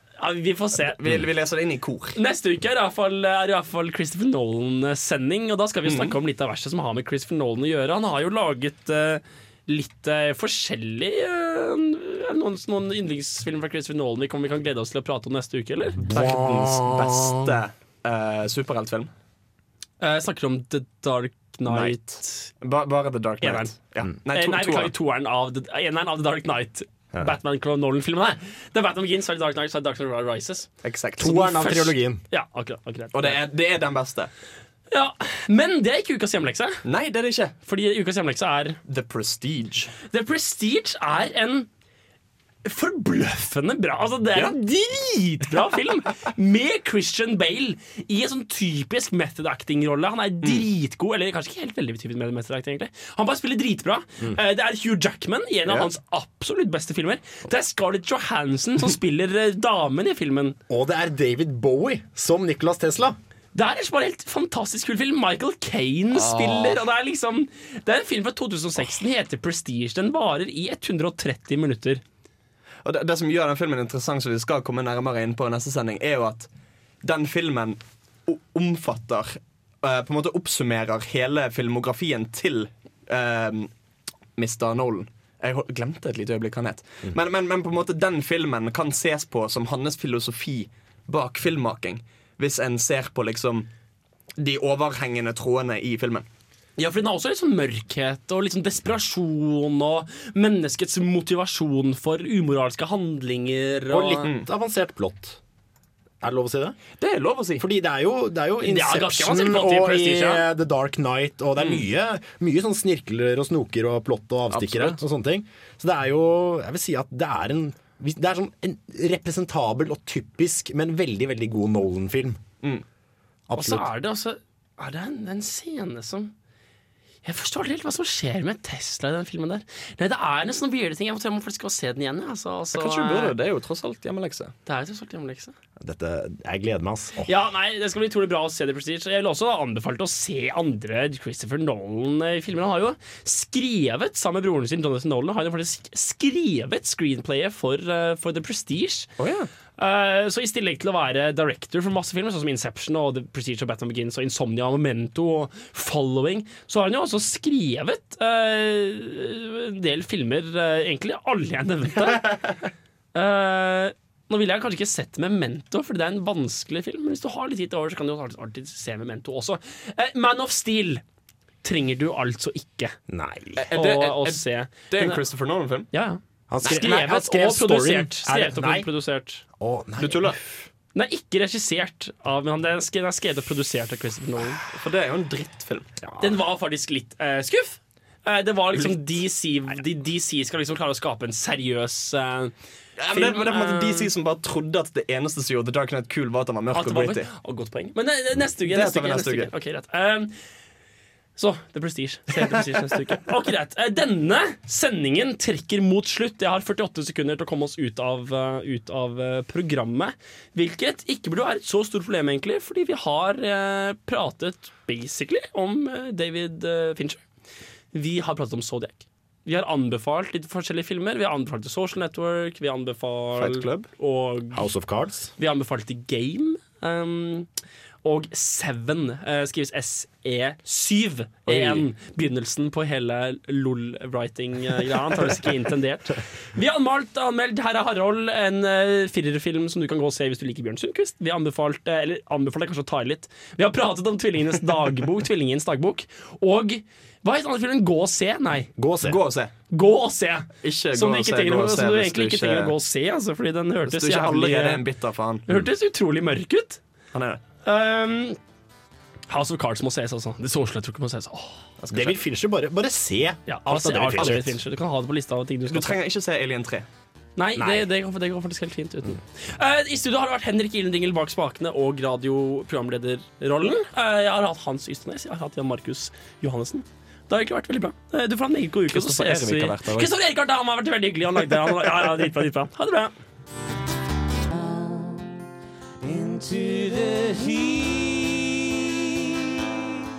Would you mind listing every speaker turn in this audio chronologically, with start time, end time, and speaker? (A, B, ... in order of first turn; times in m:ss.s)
0:00.2-0:01.0 A
0:01.0-0:02.2 B
0:02.2-0:16.0 A
0:05.8-0:06.1 B
0:16.0-0:17.6 C
0:16.1-0:19.1 B
0:20.0-0:22.5 A
0:21.7-0:24.9 B
0:23.4-0:23.7 A
0:24.3-0:30.7 A
0:30.8-0:31.6 B
0:31.2-0:32.2 C
0:31.2-0:33.4 A
0:33.1-0:34.3 B
0:34.9-0:36.8 A
0:36.8-0:37.5 B
0:37.6-0:38.8 A
0:38.8-0:39.9 B
0:40.1-0:41.7 A
0:42.6-1:00.6 A
1:00.7-1:03.2 C
1:03.5-1:12.0 A
1:06.2-1:06.8 B
1:12.8-1:16.5 B
1:17.0-1:23.7 B
1:24.4-1:33.7 B
1:34.4-1:36.2 B
1:36.8-1:44.3 A
1:43.9-1:45.4 C
1:46.2-1:46.8 C
1:47.0-1:47.6 B
1:47.6-2:02.4 C
1:48.6-1:50.5 A
1:54.5-1:55.0 B
2:03.5-2:03.9 C
2:03.6-2:06.3 A
2:07.2-2:13.3 A
2:12.7-2:14.5 B
2:14.6-2:15.5 A
2:15.8-2:17.3 C
2:17.2-2:29.1 A
2:29.2-2:29.5 B
2:29.8-2:42.4 A
2:43.1-2:51.0 A
2:51.6-2:53.0 A
2:53.1-2:53.6 C
2:53.6-2:55.9 B
2:53.7-2:55.2 A
2:55.9-2:59.4 A
2:56.5-2:58.9 C
2:56.6-2:57.0 B
2:59.6-3:00.6 C
3:00.0-3:00.4 B
3:00.9-3:04.6 A
3:04.7-3:05.9 B
3:06.0-3:06.3 C
3:06.2-3:12.5 A
3:13.0-3:17.3 B
3:13.1-3:14.1 A
3:16.7-3:20.3 A
3:18.7-3:19.5 B
3:21.4-3:37.2 A
3:37.9-3:44.7 A
3:43.4-3:43.9 B
3:44.5-3:45.3 C
3:45.4-3:47.5 A
3:48.0-4:08.7 A
3:51.5-3:51.8 B
4:08.8-4:09.2 C
4:09.0-4:09.5 B
4:09.7-4:14.8 A
4:10.6-4:12.7 B
4:13.9-4:15.4 B
4:15.5-4:16.8 A
4:17.1-4:17.4 B
4:17.6-4:18.4 A
4:19.3-4:21.6 A
4:21.8-4:22.2 B
4:21.9-4:24.5 C
4:23.5-4:26.0 A
4:24.2-4:24.4 B
4:25.7-4:26.8 B
4:27.4-4:43.1 A
4:27.6-4:27.8 C
4:38.9-4:40.1 B
4:44.5-4:45.3 D
4:46.0-4:49.5 D